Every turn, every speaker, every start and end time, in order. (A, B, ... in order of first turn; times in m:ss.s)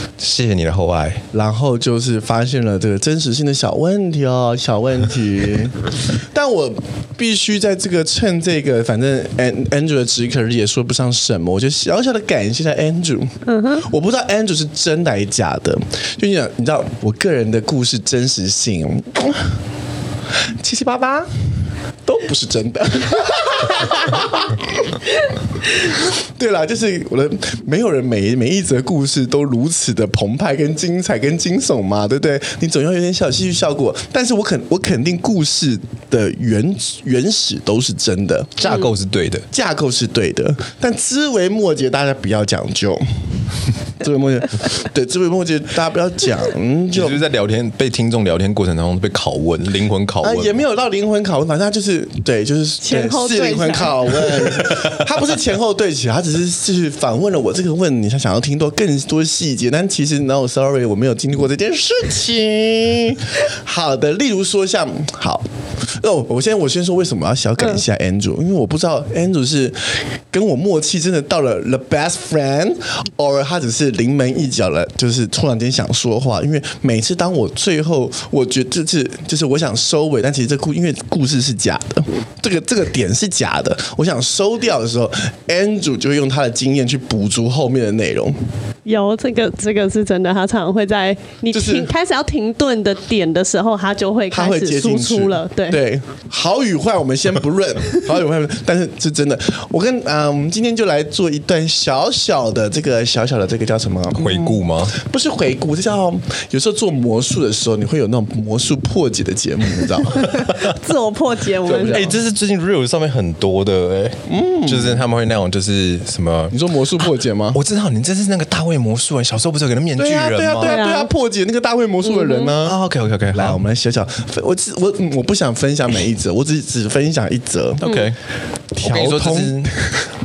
0:00.2-0:01.2 A
0:01.3-0:19.4 B
0:13.5-0:13.9 C
0:20.6-0:21.3 B
0:22.0-0:24.6 B
0:26.4-0:38.8 B
0:38.6-0:39.4 A
0:39.5-0:43.0 B
0:44.0-0:47.2 B
0:46.9-0:50.6 A
0:50.2-1:05.4 B
0:52.8-0:54.5 C
1:06.0-1:28.4 B
1:28.8-1:35.8 C
1:31.5-1:31.9 B
1:34.3-1:50.4 B
1:44.1-1:45.0 A
1:50.4-1:52.1 C
1:51.6-1:52.2 B
1:51.7-2:00.8 A
1:54.3-1:55.0 B
1:56.5-1:57.6 B
2:00.0-2:02.8 B
2:00.6-2:01.1 C
2:02.0-2:02.5 C
2:02.6-2:03.6 A
2:03.3-2:07.8 B
2:07.8-2:08.2 A
2:08.8-2:09.9 B
2:08.8-2:09.7 A